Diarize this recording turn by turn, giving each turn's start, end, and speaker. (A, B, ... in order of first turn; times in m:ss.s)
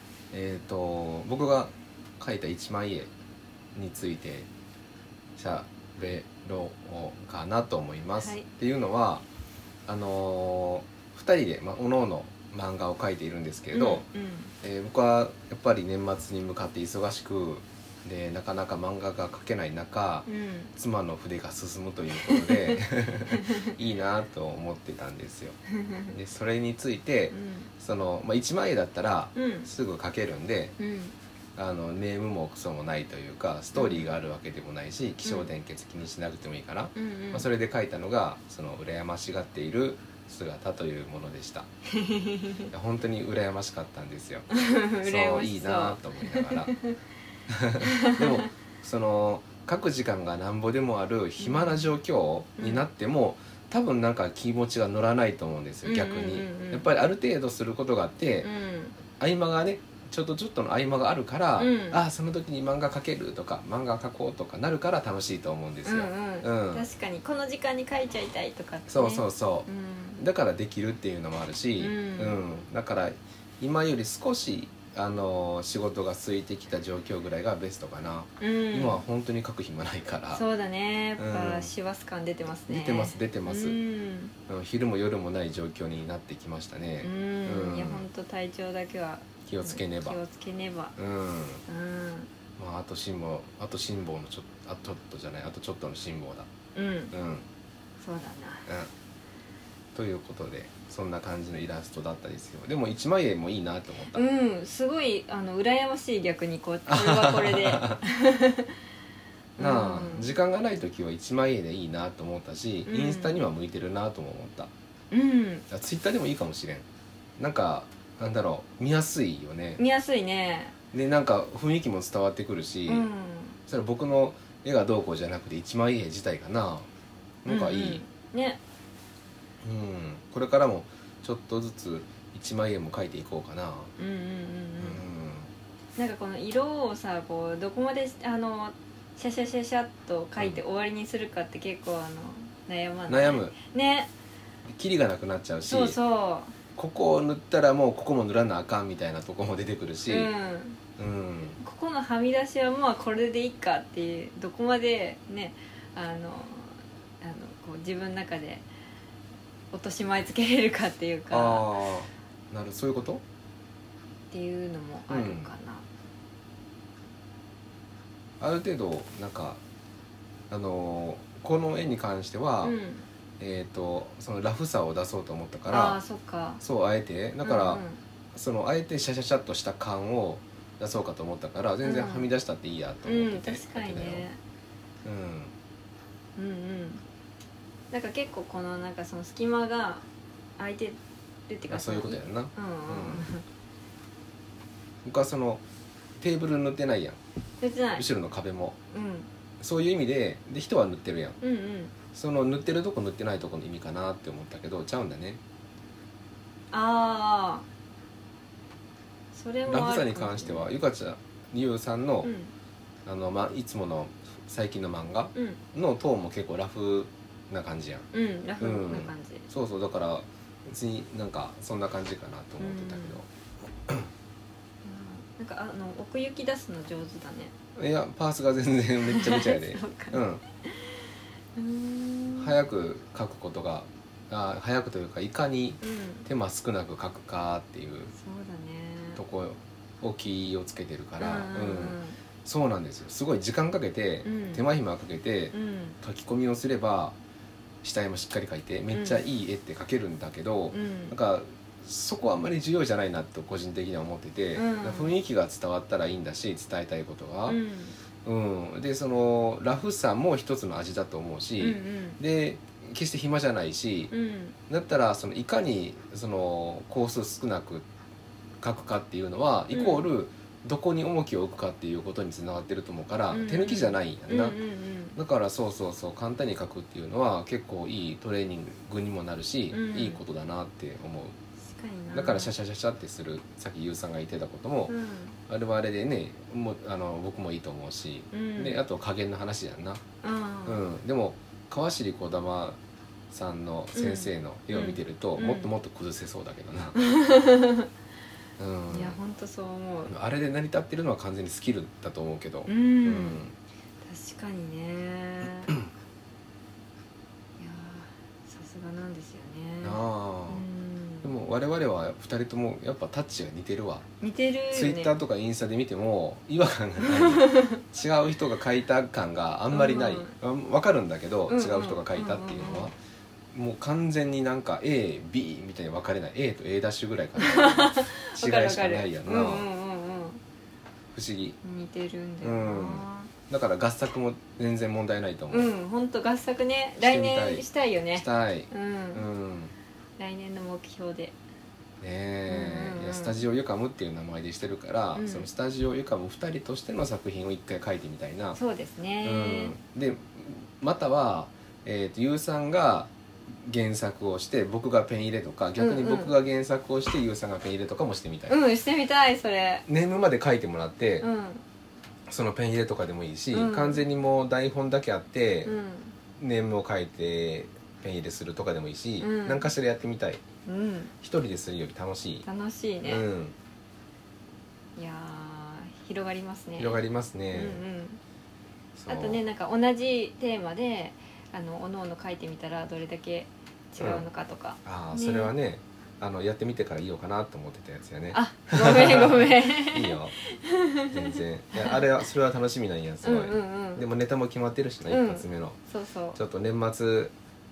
0:00.3-0:03.1 A
0:03.7-0:04.5 A
0:05.4-0:09.2 A
0:08.2-0:08.4 B
0:09.9-0:14.0 A
0:13.7-0:14.5 B
0:14.6-0:25.6 A
0:20.3-0:20.7 B
0:22.2-0:22.8 B
0:23.3-0:23.7 B
0:25.8-0:26.1 B
0:26.1-0:30.8 A
0:27.3-0:27.7 B
0:29.3-0:29.7 B
0:30.8-0:31.1 B
0:31.6-0:41.7 A
0:33.7-0:34.1 B
0:35.2-0:35.5 B
0:36.9-0:37.5 B
0:41.9-0:42.7 B
0:42.7-0:44.5 A
0:44.5-0:47.0 B
0:45.0-0:46.7 A
0:47.5-0:58.5 A
0:47.8-0:48.5 B
0:51.4-0:51.9 B
0:52.6-0:52.8 B
0:55.8-0:56.9 B
0:58.4-0:59.0 B
0:59.1-1:06.8 A
1:01.6-1:02.0 B
1:05.8-1:10.2 B
1:08.9-1:20.4 A
1:11.8-1:12.4 B
1:18.4-1:19.0 B
1:20.3-1:24.3 B
1:21.2-1:21.7 A
1:22.7-1:23.8 A
1:24.5-1:28.0 A
1:27.0-1:31.0 B
1:29.4-1:30.2 A
1:31.0-1:31.6 A
1:31.7-1:32.3 B
1:32.6-1:36.5 A
1:36.7-1:37.1 B
1:37.1-1:37.4 A
1:38.0-1:38.7 B
1:39.9-1:44.2 A
1:44.1-1:48.8 B
1:46.9-1:48.0 A
1:49.6-1:50.3 B
1:49.6-1:54.7 A
1:52.9-1:53.4 B
1:55.1-1:55.6 B
1:55.7-1:56.8 A
1:57.4-1:59.8 A
1:59.8-2:00.7 B
2:00.9-2:03.1 A
2:02.9-2:03.6 B
2:03.6-2:06.9 A
2:07.4-2:08.0 A
2:07.4-2:08.6 B
2:09.6-2:13.9 A
2:14.0-2:15.0 B
2:14.8-2:15.5 A
2:16.0-2:24.1 B
2:23.1-2:23.6 A
2:24.7-2:26.0 A
2:25.6-2:26.5 B
2:26.7-2:30.3 A
2:30.1-2:30.8 B
2:31.0-2:31.6 A
2:31.6-2:38.6 B
2:39.7-2:41.7 B
2:41.3-2:43.2 A
2:44.3-2:45.8 B
2:45.1-2:45.5 A
2:48.4-2:49.6 A
2:50.5-2:52.8 A
2:52.6-2:53.1 B
2:53.4-2:56.0 A
2:55.7-2:56.6 B
2:56.6-3:04.3 A
2:57.4-2:58.0 B
3:01.8-3:02.3 B
3:03.0-3:04.4 B
3:05.0-3:05.5 A
3:06.4-3:07.0 B
3:07.9-3:10.0 B
3:10.6-3:13.4 B
3:11.7-3:13.3 A
3:15.0-3:15.6 A
3:16.2-3:17.2 A
3:17.6-3:18.0 B
3:18.0-3:18.8 A
3:18.9-3:19.3 B
3:19.6-3:21.4 A
3:21.4-3:21.9 B
3:22.1-3:25.4 A
3:26.7-3:27.6 B
3:29.3-3:30.7 B
3:29.7-3:32.3 A
3:32.2-3:32.5 B
3:33.0-3:38.0 A
3:35.3-3:35.6 B
3:38.1-3:39.5 B
3:38.6-3:43.2 A
3:42.6-3:43.2 B
3:44.8-3:47.5 B
3:47.8-3:50.4 A
3:49.0-3:52.6 B
3:52.3-3:58.1 A
3:55.8-3:56.3 B
3:58.1-3:59.2 B
3:59.1-4:07.2 A
4:01.2-4:02.2 B
4:04.2-4:04.6 B
4:05.5-4:06.0 B
4:07.8-4:17.6 A
4:08.9-4:09.2 B
4:10.7-4:11.2 B
4:14.5-4:15.1 B
4:17.5-4:17.9 B
4:18.2-4:24.1 A
4:21.6-4:22.2 B
4:24.1-4:24.6 B
4:24.7-4:27.8 A
4:28.6-4:34.6 A
4:29.7-4:30.0 B
4:33.3-4:35.2 B
4:35.1-4:41.4 A
4:39.7-4:40.2 B
4:41.7-4:42.5 B
4:42.1-4:45.0 A
4:44.9-4:45.4 B
4:45.5-4:50.0 A
4:48.3-4:48.8 B
4:50.2-4:50.8 B
4:50.6-4:52.8 A
4:53.3-4:57.0 A
4:53.9-4:55.7 B
4:56.9-4:57.9 B
4:58.6-4:59.2 A
4:58.9-5:00.1 B
5:00.0-5:03.5 A
5:02.7-5:03.4 B
5:04.0-5:05.7 B
5:07.6-5:11.3 B
5:09.8-5:10.6 A
5:11.2-5:14.0 A
5:14.2-5:15.1 B
5:14.7-5:23.0 A
5:17.0-5:17.8 B
5:19.7-5:20.3 B
5:21.5-5:22.9 B
5:23.5-5:29.7 A
5:27.4-5:30.4 B
5:31.1-5:31.6 A
5:31.6-5:33.3 B
5:32.4-5:35.7 A
5:35.5-5:39.2 B
5:37.0-5:39.7 A
5:40.2-5:41.3 B
5:42.0-5:48.6 A
5:42.5-5:43.4 B
5:45.1-5:45.5 B
5:48.5-5:49.8 B
5:49.2-5:58.6 A
5:55.8-5:56.3 B
5:58.5-5:59.8 B
5:59.9-6:01.3 A
6:01.2-6:01.6 B
6:02.3-6:05.7 A
6:03.5-6:04.0 B
6:05.6-6:06.2 B
6:06.4-6:10.4 A
6:09.2-6:09.7 B
6:10.6-6:11.1 B
6:11.2-6:12.4 A
6:12.4-6:13.2 B
6:13.0-6:13.5 A
6:15.0-6:17.0 B
6:16.8-6:17.8 A
6:17.5-6:18.2 B
6:19.0-6:19.4 A
6:19.1-6:25.5 B
6:24.0-6:24.2 A
6:24.8-6:30.3 A
6:28.3-6:32.0 B
6:31.1-6:35.8 A
6:33.2-6:34.0 B
6:35.1-6:36.4 B
6:36.3-6:37.3 A